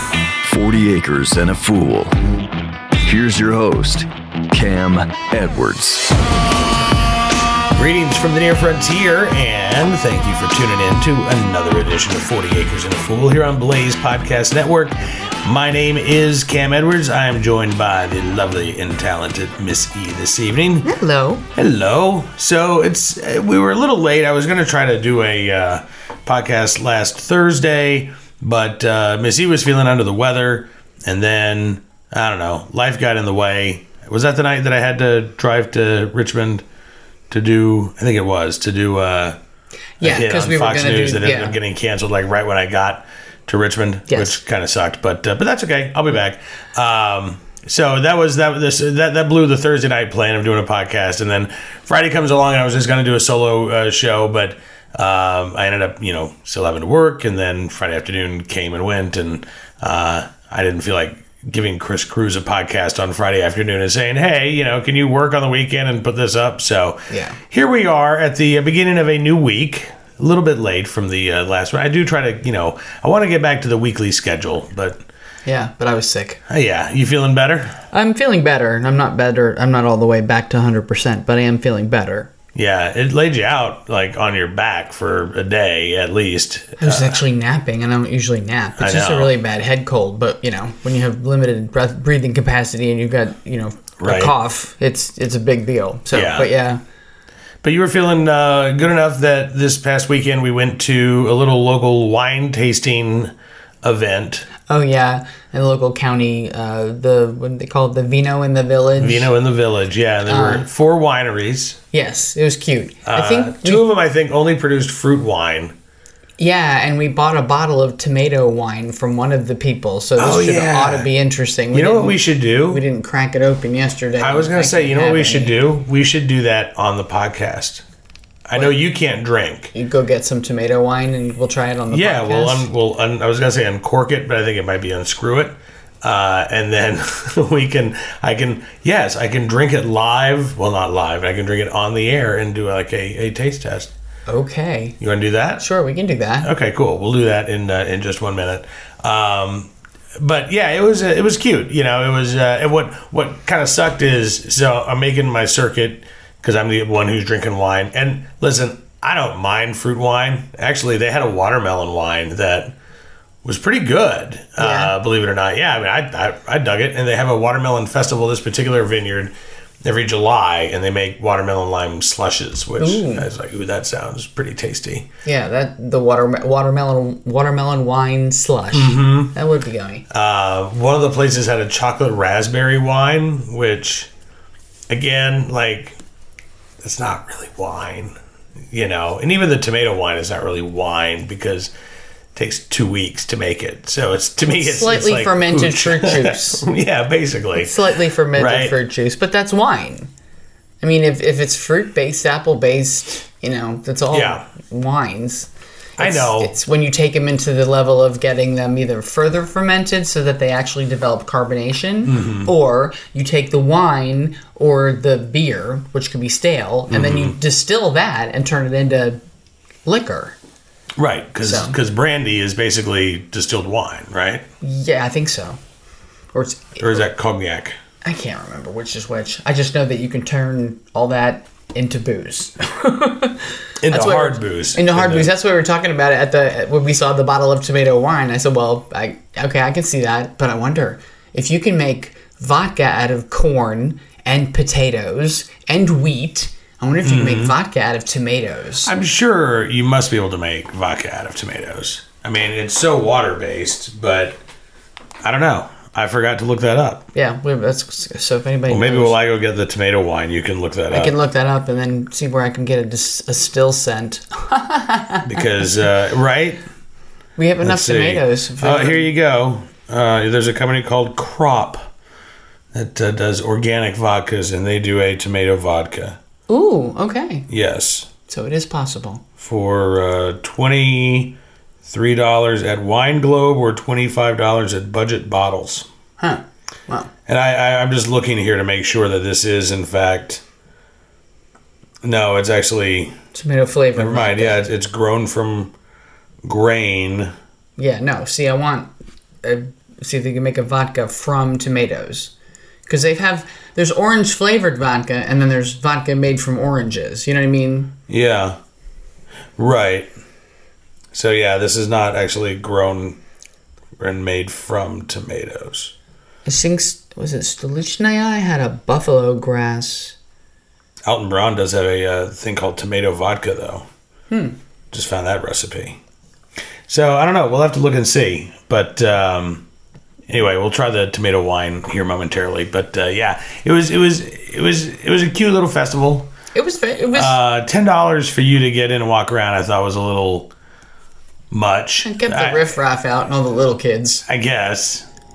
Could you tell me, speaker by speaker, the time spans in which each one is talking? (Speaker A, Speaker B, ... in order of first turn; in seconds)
Speaker A: 0.4-2.1, 3.0-6.1
Speaker B: 7.7-20.9, 21.5-36.6, 37.3-39.4, 40.0-75.0, 76.5-77.8, 82.5-87.2, 88.8-89.3, 94.0-94.3, 96.1-96.5, 97.6-104.5, 109.0-111.8, 113.0-115.7, 120.2-121.1, 121.7-122.8, 124.2-127.8, 128.4-129.7, 131.9-143.9, 145.0-145.6, 146.4-162.7, 163.4-175.1, 178.7-179.3, 180.1-184.1, 184.9-186.0, 186.8-188.1, 188.7-191.7, 192.3-197.8, 198.3-198.8, 204.1-204.4, 206.0-206.5, 212.1-212.5, 216.9-217.3, 220.9-224.5, 226.8-227.7, 233.8-235.3, 247.0-247.6, 248.8-254.4, 255.2-257.1, 258.7-261.1, 265.2-266.6, 267.6-271.9, 272.7-276.2, 277.5-278.1, 279.4-285.9, 287.3-290.4, 292.0-293.1, 293.9-295.7, 296.4-297.3, 308.1-308.6, 309.6-310.1, 311.1-313.2, 314.0-315.9, 321.0-323.9, 324.9-326.0, 326.9-329.6, 330.3-336.3, 337.1-340.5, 341.5-342.6, 344.2-345.1
Speaker C: 20.8-21.4, 40.0-41.6, 44.1-44.4, 67.1-67.4, 75.5-76.4, 77.9-82.3, 86.8-96.8, 104.7-109.3, 110.3-110.7, 111.9-113.8, 116.4-125.6, 129.7-132.7, 144.3-144.9, 145.6-146.5, 164.6-164.9, 172.8-173.3, 175.2-180.1, 194.4-196.7, 197.6-200.1, 200.8-219.2, 219.8-220.4, 221.4-221.8, 224.6-225.6, 226.3-227.0, 228.0-248.9, 257.1-259.1, 260.9-265.4, 267.4-269.1, 276.5-277.5, 278.3-279.2, 286.2-287.1, 293.3-294.7, 297.8-298.9, 299.4-302.3, 302.9-307.9, 316.4-320.1, 324.3-324.6, 336.5-337.4, 342.0-344.2